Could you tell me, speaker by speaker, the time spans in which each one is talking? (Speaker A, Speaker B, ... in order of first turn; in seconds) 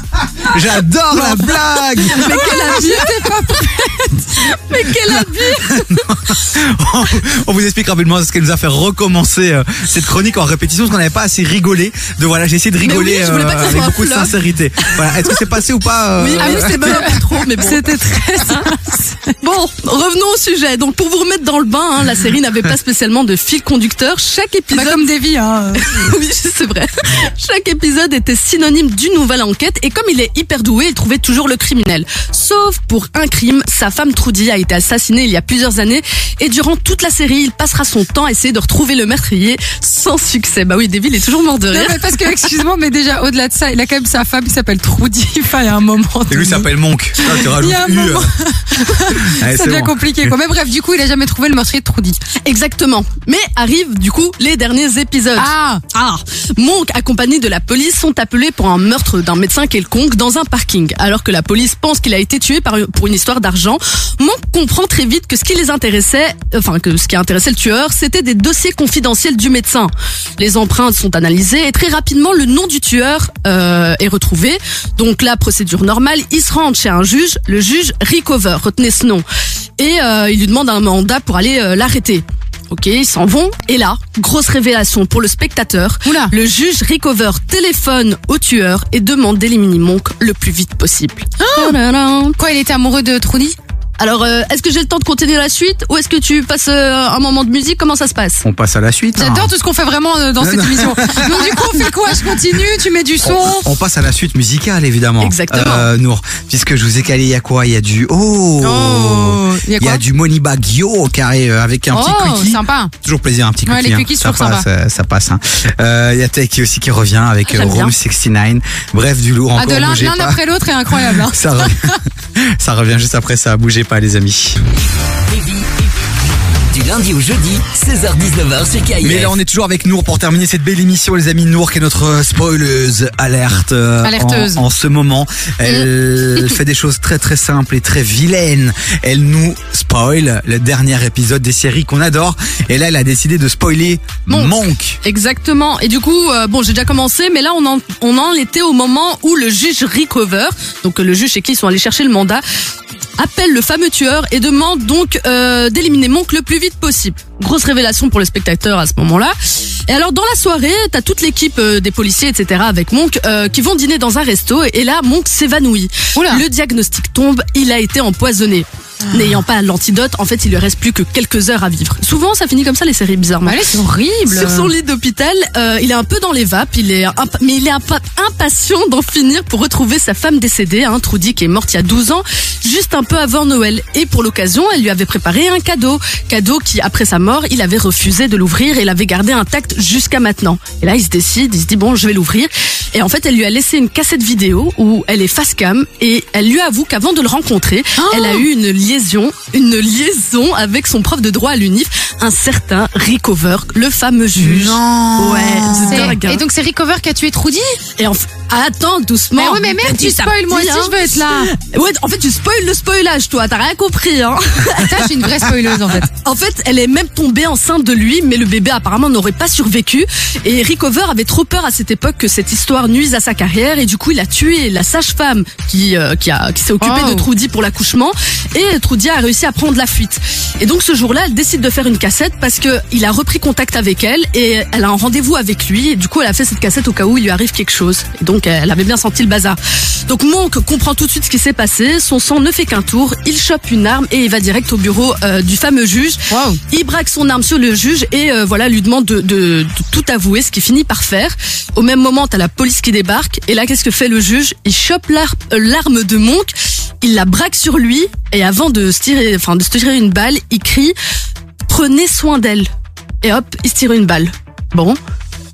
Speaker A: 0.4-2.8, 5.2-17.1, 46.3-48.3, 49.0-50.3, 98.5-99.5, 100.4-102.2, 103.2-122.0, 122.6-124.6, 129.0-145.0, 204.4-206.1
Speaker B: 1.1-3.3, 4.4-6.0, 12.8-15.4, 16.2-17.9, 18.4-18.7, 19.4-25.1, 25.7-42.5, 52.4-79.2, 79.8-92.4, 94.0-98.5, 105.2-105.9, 117.5-117.9, 135.7-136.6, 144.3-152.4, 153.2-173.6, 174.2-206.4, 208.0-215.4, 216.0-261.0, 261.7-262.7, 263.2-265.0
Speaker C: 2.1-4.4, 16.4-19.3, 24.7-26.0, 41.7-52.2, 55.4-55.8, 86.1-86.3, 91.4-91.8, 92.4-93.6, 99.2-103.7, 108.6-110.0, 111.9-112.9, 113.7-114.7, 119.5-122.0, 134.0-134.6, 166.2-166.4, 173.4-174.7, 198.0-198.4, 205.9-207.8, 209.4-211.5, 214.8-216.1, 226.8-227.3, 246.3-246.6
Speaker D: 125.3-125.7, 126.7-129.3